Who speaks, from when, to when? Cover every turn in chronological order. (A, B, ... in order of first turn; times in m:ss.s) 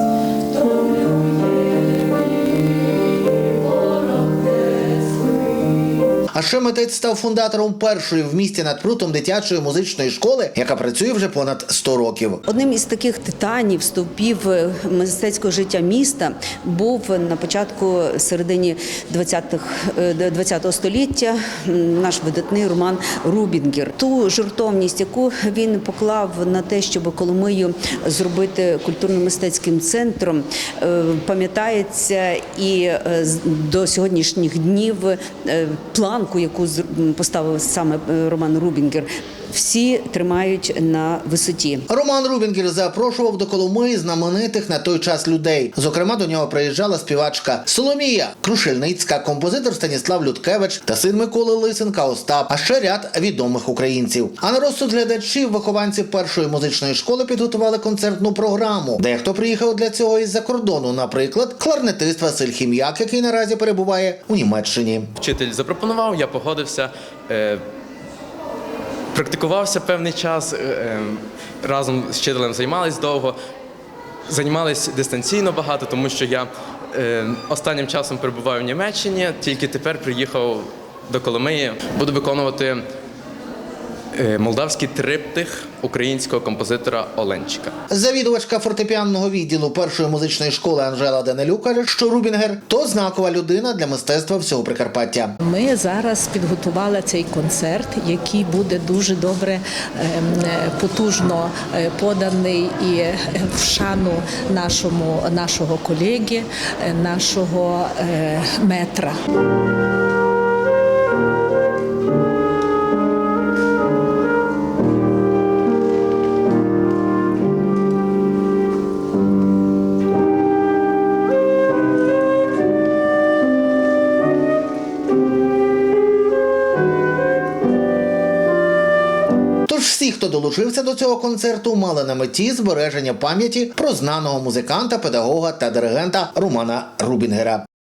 0:00.6-0:02.1 A
0:03.4-0:05.2 A
0:06.3-0:12.4 B
0:12.5-0:41.9 A
0:41.9-1:05.1 B
1:05.2-1:07.6 C
1:09.1-1:13.4 C
1:14.3-1:22.8 C
1:24.2-1:27.7 C
1:27.9-1:35.3 B
1:35.4-1:49.2 D
2:09.7-2:17.6 B